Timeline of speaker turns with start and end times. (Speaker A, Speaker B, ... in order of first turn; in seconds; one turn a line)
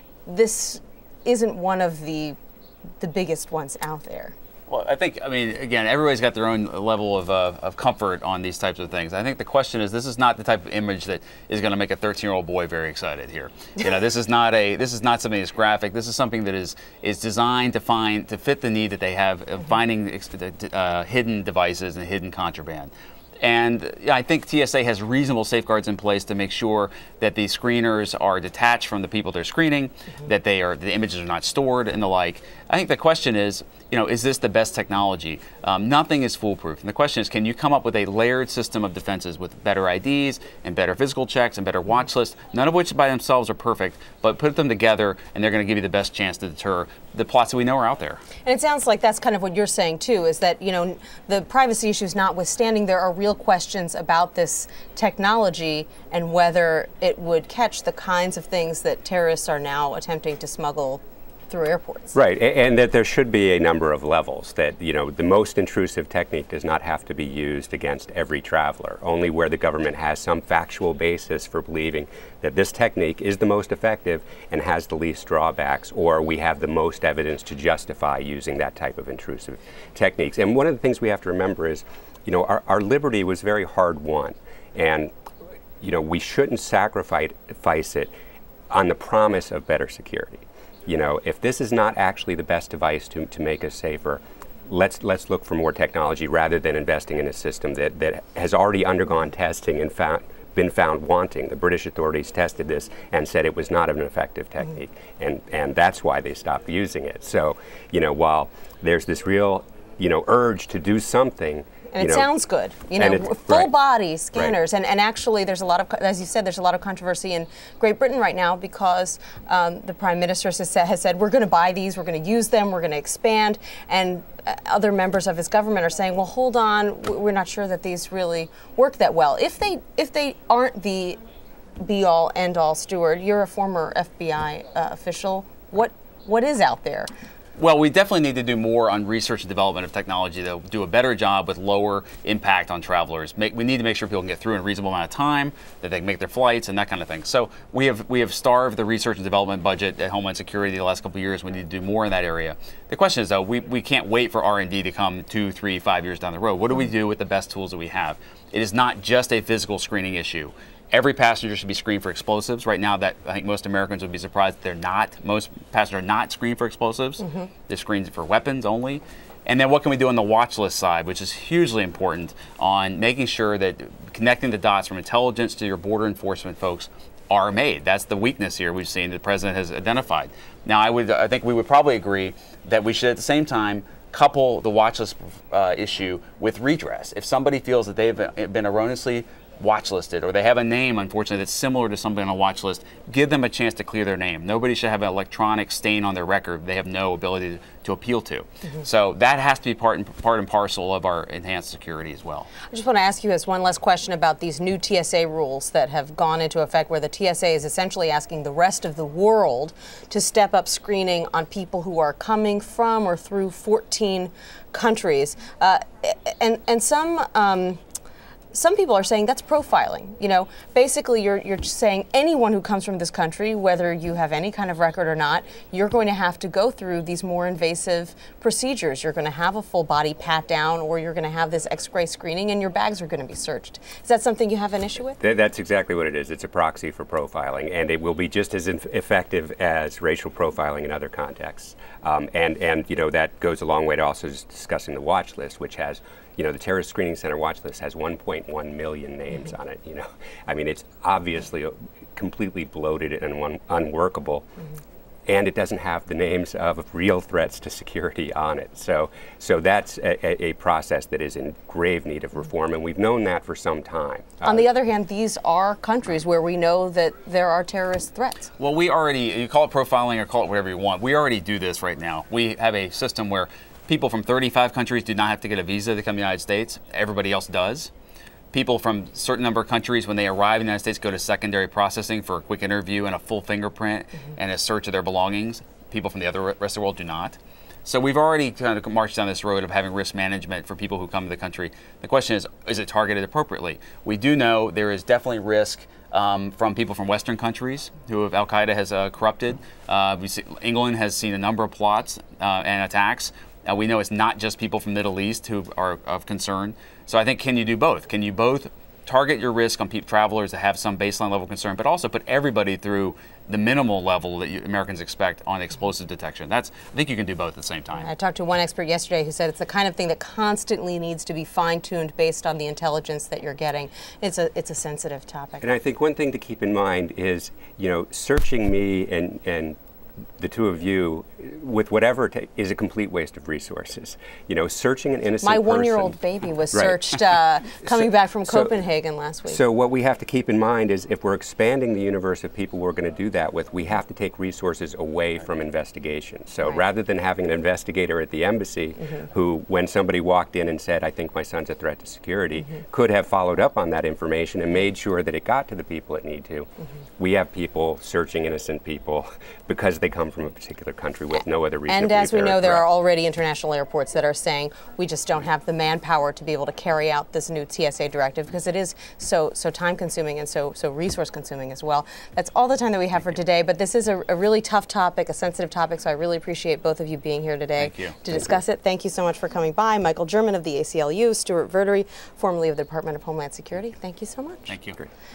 Speaker A: 0.2-2.4
Speaker A: 3.0-4.3
Speaker B: 4.7-48.2
Speaker A: 48.4-62.1
Speaker C: 62.1-85.1
Speaker C: 85.8-88.1
Speaker C: 88.7-112.3
Speaker A: 111.9-131.2
Speaker C: 113.0-113.7
Speaker A: 131.8-137.1
Speaker B: 137.6-202.5
Speaker A: 167.2-167.5
Speaker A: 202.7-217.8
Speaker A: 218.5-235.2
Speaker C: 235.2-254.5
Speaker C: 255.3-264.6
Speaker A: 264.4-268.5
Speaker B: 268.6-277.9
Speaker B: 278.5-318.1
Speaker A: 317.9-325.6
Speaker C: 325.6-329.8
Speaker C: 330.4-336.2
Speaker A: 335.4-339.6
Speaker C: 336.7-337.0
Speaker C: 337.9-338.7
Speaker C: 339.5-362.8
Speaker A: 361.9-384.7
Speaker B: 377.8-378.2
Speaker B: 384.7-385.1